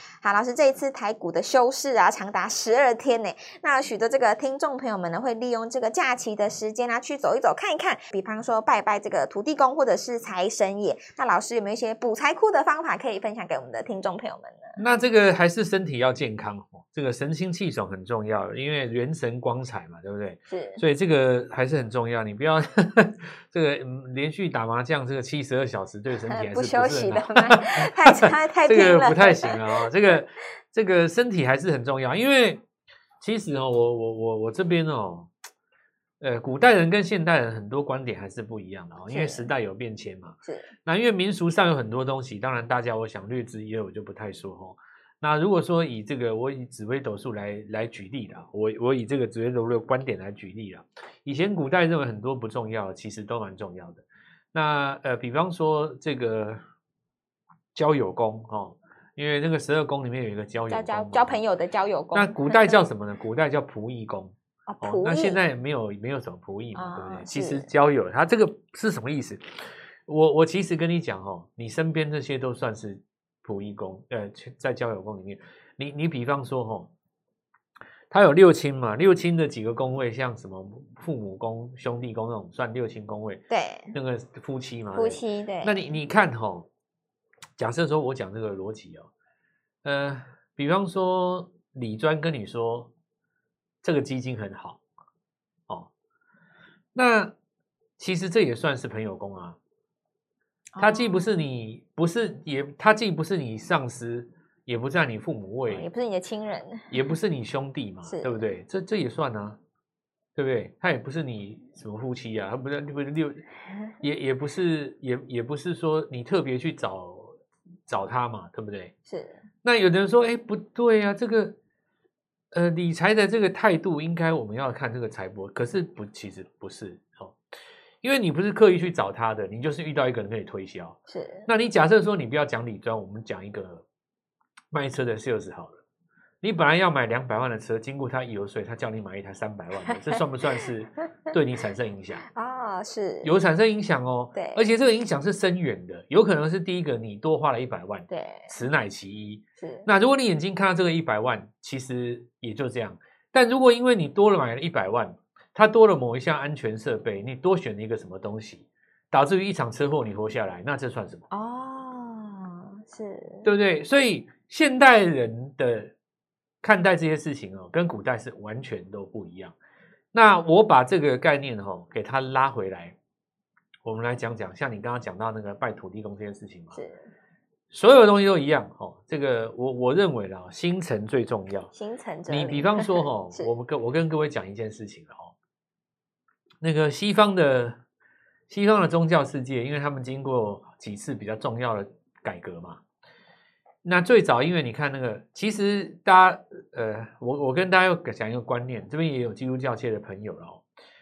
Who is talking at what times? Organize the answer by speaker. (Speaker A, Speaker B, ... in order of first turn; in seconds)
Speaker A: 0.2-14.7, 20.5-20.8, 26.3-29.6, 39.1-39.5, 40.4-40.7, 60.7-62.8, 64.7-65.4, 66.7-67.7, 83.5-83.9, 84.9-85.8, 100.7-101.4, 105.7-107.0, 108.0-108.4, 119.0-119.4, 131.1-131.5, 139.9-140.1, 142.3-143.3, 144.3-144.7, 148.1-148.5, 149.6-149.9, 161.3-163.5, 176.7-177.1, 181.7-183.5
Speaker B: 14.8-32.6, 33.2-35.3, 36.2-56.6, 57.7-61.4, 62.1-76.9, 78.1-83.4, 83.9-86.7, 87.6-89.1, 89.8-92.9, 93.8-94.8, 96.9-97.3, 98.0-99.5, 100.8-105.9, 106.9-109.6, 110.3-113.4, 114.0-118.9, 119.6-121.5, 122.5-127.4, 128.0-133.8, 134.7-135.8, 136.4-142.2, 143.2-161.3, 163.4-165.9, 166.6-169.5, 170.1-172.9, 173.8-176.8, 177.7-181.7, 182.3-185.3, 186.6-187.8, 188.5-192.8, 193.8-200.6